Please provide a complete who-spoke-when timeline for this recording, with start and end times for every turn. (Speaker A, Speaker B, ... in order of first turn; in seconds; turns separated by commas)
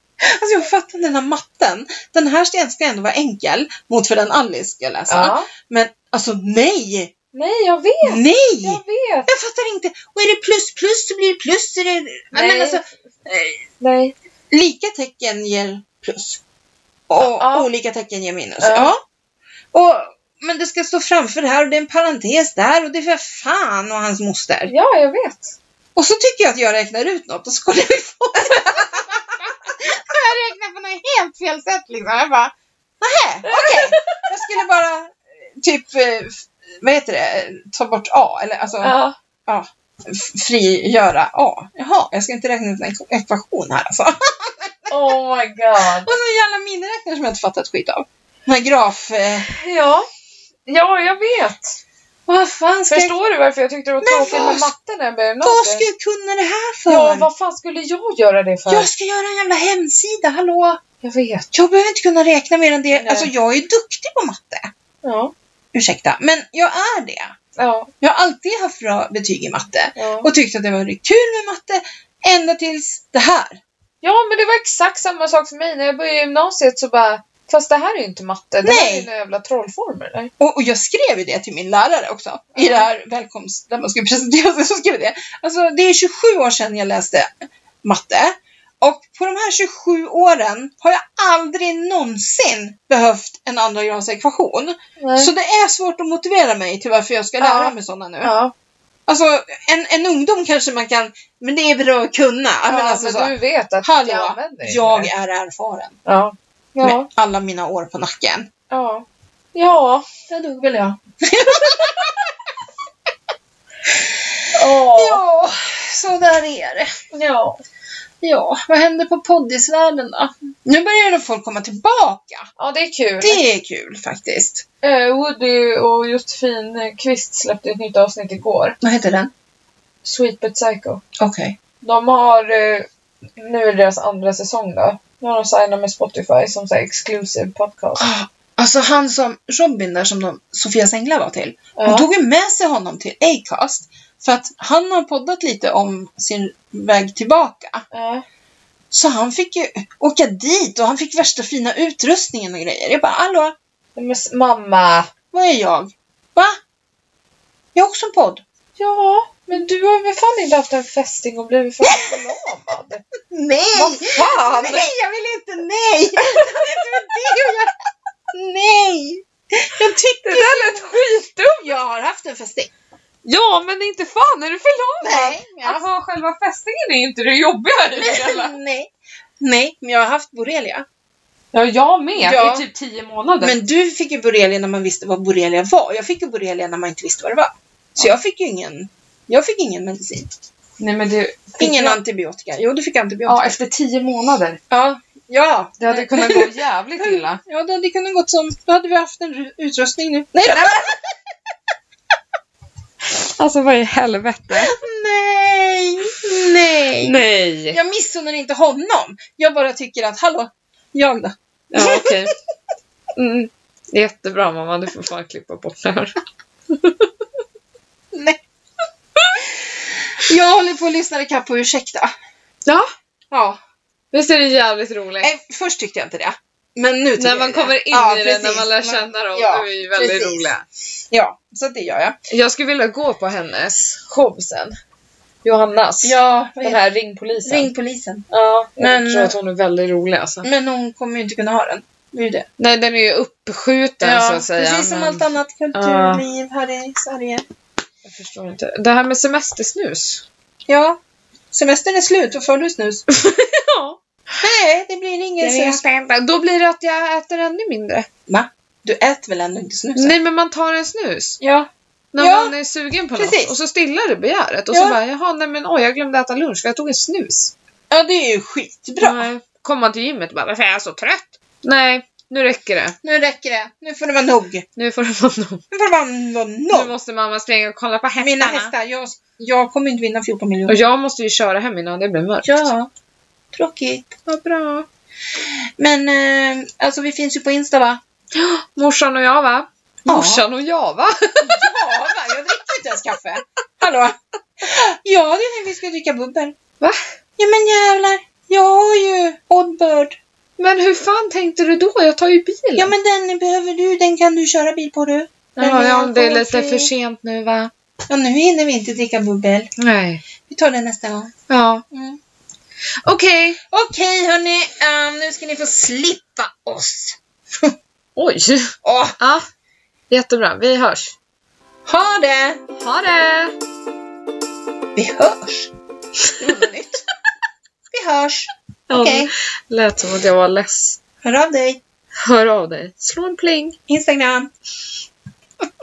Speaker A: 0.2-7.1, Speaker B: 5.1-5.5, Speaker B: 7.3-9.3, Speaker A: 8.0-13.6, Speaker B: 12.3-12.8, Speaker B: 13.8-14.2, Speaker A: 14.5-16.4, Speaker A: 17.1-19.0, Speaker B: 17.2-17.7, Speaker B: 18.6-18.9, Speaker A: 19.7-24.7, Speaker B: 24.7-25.6, Speaker A: 26.0-45.1, Speaker B: 33.4-34.2, Speaker B: 38.8-39.2, Speaker B: 44.9-46.1, Speaker A: 45.8-49.5, Speaker B: 49.5-50.1, Speaker B: 50.7-51.8, Speaker A: 52.3-53.2, Speaker B: 52.9-55.9, Speaker A: 54.0-54.7, Speaker A: 55.4-57.3, Speaker B: 56.9-58.9, Speaker A: 58.7-60.8, Speaker B: 61.0-61.5, Speaker A: 61.5-64.7, Speaker B: 62.9-63.3, Speaker B: 65.0-65.3, Speaker A: 65.7-67.3, Speaker B: 67.6-67.9, Speaker A: 68.0-73.6, Speaker B: 70.0-70.3, Speaker B: 74.0-80.3, Speaker A: 78.6-79.1, Speaker A: 80.4-98.3, Speaker B: 82.6-82.9, Speaker B: 95.0-95.3, Speaker B: 97.4-98.5, Speaker A: 99.1-106.0, Speaker B: 102.7-105.1, Speaker B: 106.1-107.1, Speaker A: 106.8-108.5, Speaker B: 108.7-110.1, Speaker A: 110.3-112.2, Speaker A: 113.9-116.9, Speaker B: 114.5-115.2, Speaker B: 117.1-117.6, Speaker A: 118.2-122.5, Speaker B: 122.6-123.4, Speaker A: 123.2-124.7, Speaker B: 124.8-128.8, Speaker A: 128.8-129.3, Speaker B: 130.0-131.0, Speaker A: 131.2-131.6, Speaker B: 131.8-138.1, Speaker A: 138.0-147.8, Speaker B: 141.8-142.1, Speaker B: 147.9-148.2, Speaker A: 148.9-153.6, Speaker B: 154.0-155.1, Speaker A: 155.3-156.6, Speaker A: 157.8-158.4, Speaker B: 158.8-163.1, Speaker A: 161.8-162.2, Speaker A: 163.3-167.7, Speaker B: 163.7-164.9, Speaker B: 166.2-167.2, Speaker A: 168.3-170.9, Speaker B: 170.2-171.8, Speaker A: 171.6-172.7, Speaker B: 173.2-178.6, Speaker A: 175.0-175.8, Speaker A: 177.9-180.9, Speaker B: 181.5-183.6, Speaker A: 182.2-182.7, Speaker A: 183.4-190.3, Speaker B: 190.8-192.0, Speaker A: 191.6-193.6, Speaker B: 193.3-194.6, Speaker A: 194.7-201.0, Speaker B: 195.8-197.4, Speaker B: 203.1-204.8, Speaker A: 204.6-207.2, Speaker B: 207.0-207.8, Speaker A: 207.7-212.2, Speaker B: 211.7-212.3, Speaker B: 213.2-216.1, Speaker B: 216.7-217.1, Speaker A: 218.1-218.4, Speaker B: 219.2-219.4, Speaker A: 219.4-222.1, Speaker A: 223.3-223.6, Speaker B: 224.1-225.3, Speaker A: 225.2-230.5, Speaker B: 227.2-230.7, Speaker A: 231.1-232.2, Speaker B: 232.3-234.7, Speaker B: 235.4-237.7, Speaker A: 236.0-236.8, Speaker A: 237.4-238.3, Speaker B: 238.3-240.5, Speaker A: 238.8-239.3, Speaker A: 240.4-242.5, Speaker B: 242.6-246.2, Speaker A: 244.0-247.5, Speaker B: 248.1-250.2, Speaker A: 250.7-251.0, Speaker A: 251.5-253.0, Speaker B: 253.1-254.0, Speaker A: 254.4-255.8, Speaker B: 255.4-258.1, Speaker A: 258.3-260.2, Speaker B: 260.0-261.4, Speaker A: 261.4-262.6, Speaker B: 262.1-267.5, Speaker A: 263.1-263.6, Speaker A: 264.7-265.0, Speaker A: 267.9-269.3, Speaker B: 269.0-273.0, Speaker A: 273.0-274.7, Speaker B: 274.8-275.6, Speaker A: 275.7-276.9, Speaker B: 276.7-278.7, Speaker A: 278.2-280.8, Speaker B: 280.7-282.7, Speaker A: 282.4-282.9, Speaker A: 283.5-284.6, Speaker B: 284.4-284.9, Speaker A: 285.4-288.0, Speaker B: 288.4-291.7, Speaker A: 290.1-290.5, Speaker A: 291.4-296.6, Speaker B: 296.8-297.1, Speaker A: 297.4-300.2, Speaker B: 300.6-302.9, Speaker A: 302.8-306.9, Speaker B: 305.6-307.7, Speaker A: 308.1-309.7, Speaker B: 309.8-310.2, Speaker A: 310.5-311.3, Speaker B: 311.5-311.8, Speaker A: 311.9-312.2, Speaker B: 313.1-313.6, Speaker A: 313.7-317.7, Speaker B: 318.2-319.5, Speaker A: 318.8-319.2, Speaker B: 320.1-321.1, Speaker A: 321.9-322.6, Speaker B: 322.8-323.5, Speaker A: 324.9-325.7, Speaker B: 326.2-326.7, Speaker A: 326.4-327.0, Speaker A: 327.9-329.3, Speaker B: 328.9-331.0, Speaker A: 331.2-331.8, Speaker B: 332.2-333.8, Speaker A: 333.9-334.5